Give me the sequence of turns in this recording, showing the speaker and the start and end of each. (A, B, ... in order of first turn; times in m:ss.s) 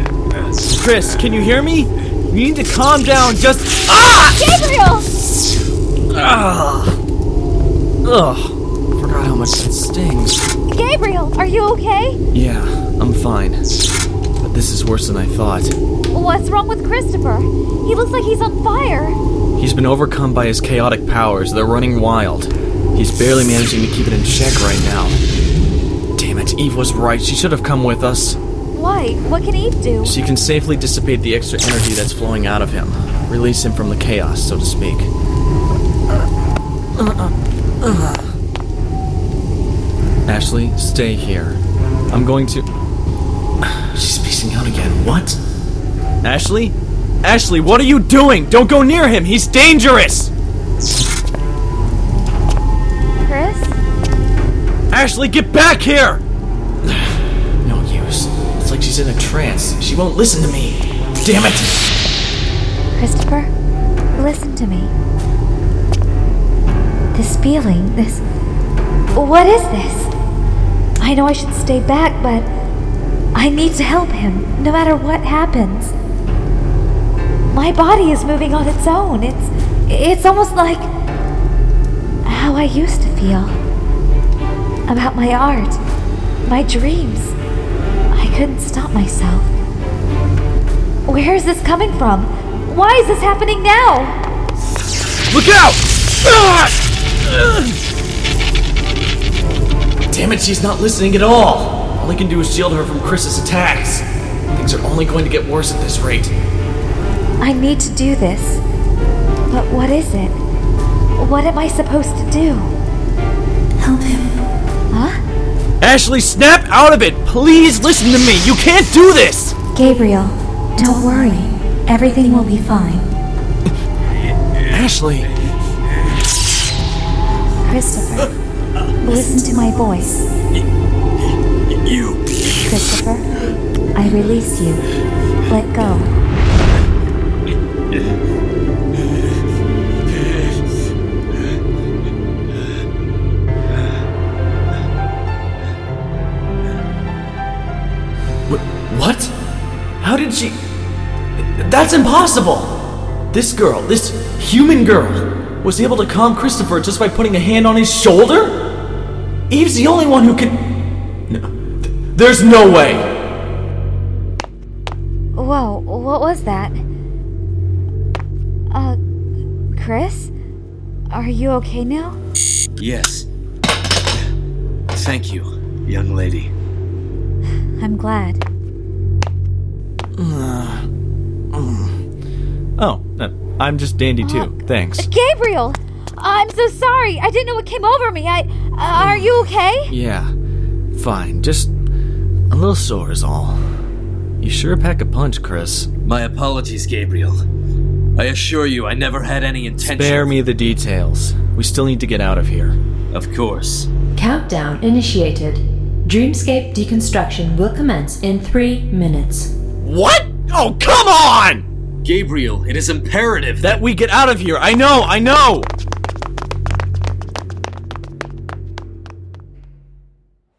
0:00.6-0:04.4 A
0:04.3-0:05.1 B
0:06.1-0:07.0 A
0:08.0-0:10.4 A
0:10.7-0:12.2 B
0:12.3-0:13.6 A
0:14.4-0:15.8 A
0:16.1-0:19.2 B
0:19.6-0:25.2 A
0:26.2-0:28.4 A
0:28.7-0:30.2 B
0:30.0-0:35.1 A
0:37.0-0:38.2 A
0:40.2-0:41.6 A
0:42.1-0:42.7 A
0:43.6-0:45.4 A
0:46.2-0:50.3 A
0:53.2-0:53.8 B
0:54.9-0:56.2 A
0:57.6-1:01.9 A
1:02.9-1:03.5 B
1:04.1-1:04.9 B
1:07.1-1:08.2 B
1:09.1-1:10.1 B
1:11.0-1:12.5 B
1:13.3-1:15.9 B
1:17.5-1:20.9 B
1:22.2-1:23.6 B
1:24.9-1:25.8 B
1:26.4-1:27.3 B
1:28.1-1:29.5 B
1:31.0-1:34.2 B
1:35.3-1:37.7 A
1:40.1-1:46.3 A
1:47.4-1:48.6 B
1:49.5-1:50.4 B
1:51.2-1:52.7 B
1:53.8-1:54.2 B
1:54.9-1:55.2 B
1:55.8-1:59.6 A
1:59.7-2:03.1 B
2:04.7-2:05.3 A
2:07.6-2:08.3 B
2:09.0-2:10.2 B
2:11.7-2:12.2 C
2:12.5-2:13.2 B
2:13.9-2:14.8 B
2:15.5-2:16.1 B
2:28.5-2:29.3 A
2:30.0-2:30.6 A
2:31.4-2:38.7 A
2:39.5-2:40.7 A
2:41.3-2:43.1 A
2:45.3-2:46.8 B
2:48.7-2:49.0 B
2:49.7-2:50.3 B
2:51.1-2:52.2 B
2:52.8-2:53.3 C
2:54.9-2:56.5 C
2:57.8-2:58.4 B
3:00.1-3:00.8 A
3:01.5-3:01.9 A
3:02.8-3:05.1 A
3:04.2-3:09.9 B
3:08.9-3:10.3 A
3:10.9-3:11.7 A
3:12.5-3:13.6 A
3:14.4-3:15.9 A
3:16.0-3:17.4 C
3:18.2-3:20.4 C
3:19.8-3:22.8 A
3:23.1-3:23.9 C
3:24.1-3:29.5 D
3:29.8-3:31.6 A
3:32.0-3:33.8 C
3:33.6-3:35.7 A